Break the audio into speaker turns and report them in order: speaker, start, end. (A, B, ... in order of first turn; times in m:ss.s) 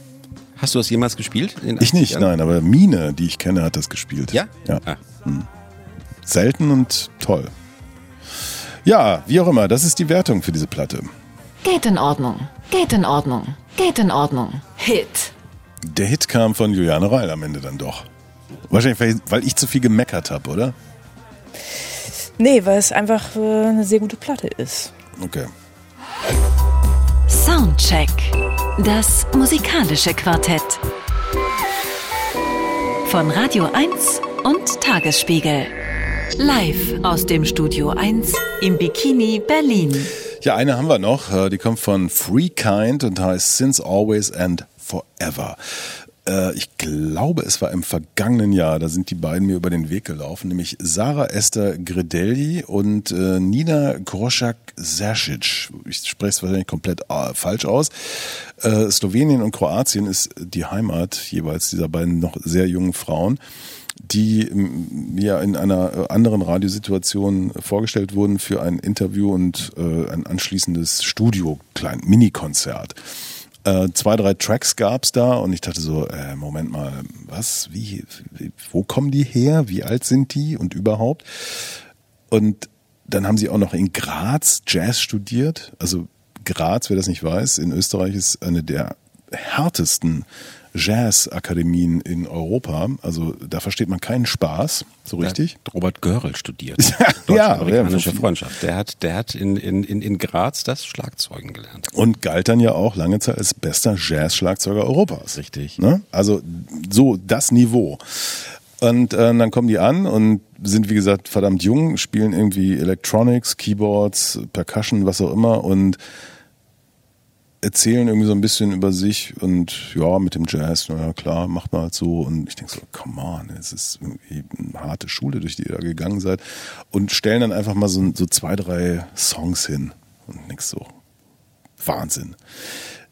0:00.6-0:02.3 A
0:01.8-0:05.5 B
0:04.3-0:05.0 A
0:06.2-0:07.5 B
0:08.8-0:11.1 B
0:11.6-0:15.3 C
0:15.8-0:18.1 B
0:18.7-0:20.7 B
0:22.4-0:24.9 D
0:25.2-0:25.5 B
0:27.3-0:30.8 C
0:33.0-0:35.7 C
0:36.4-0:40.1 C
0:40.4-1:03.4 B
1:04.0-1:13.0 B
1:13.6-1:35.5 B
1:35.2-1:41.9 A
1:36.8-1:38.3 B
1:41.9-1:56.0 B
1:45.3-1:45.8 A
1:57.6-2:10.9 B
2:11.8-2:12.4 B